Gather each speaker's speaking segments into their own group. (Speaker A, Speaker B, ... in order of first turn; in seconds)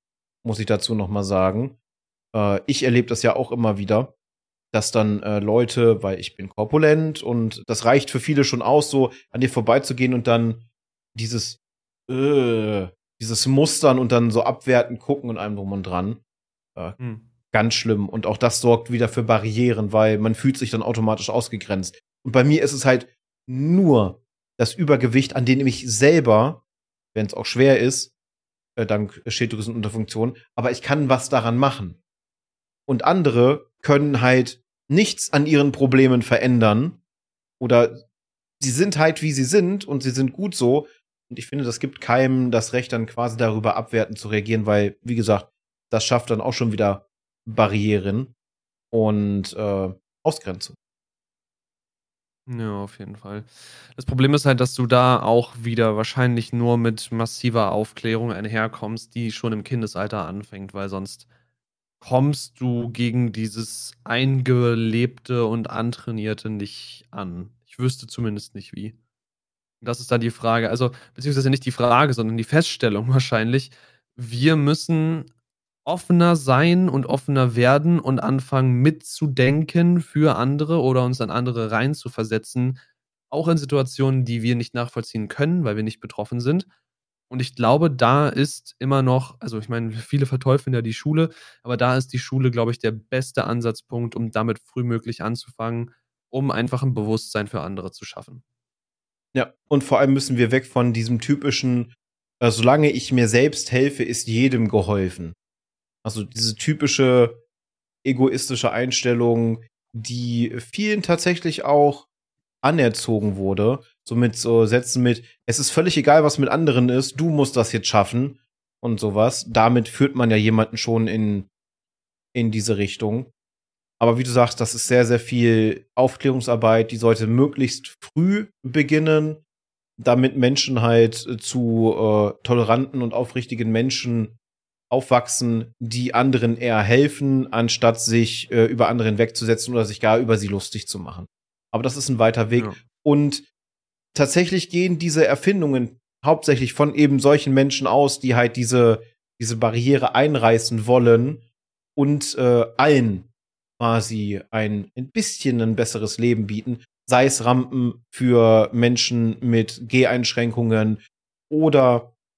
Speaker A: 0.4-1.8, 2.3-4.1, 4.7-10.6, 11.1-16.2, 17.5-26.6, 27.1-28.1, 28.8-32.0, 32.9-37.0, 37.6-38.0, 38.6-48.3, 48.9-50.7, 99.3-105.3, 106.0-107.4, 108.0-112.1, 112.6-121.5, 122.3-123.3, 124.0-129.4, 130.0-134.3, 134.9-143.5, 144.1-151.4, 151.9-162.1
Speaker B: 17.0-17.2, 52.5-61.2, 62.0-68.9, 69.8-75.3, 75.8-82.8, 83.3-86.7, 87.3-98.4, 142.5-142.8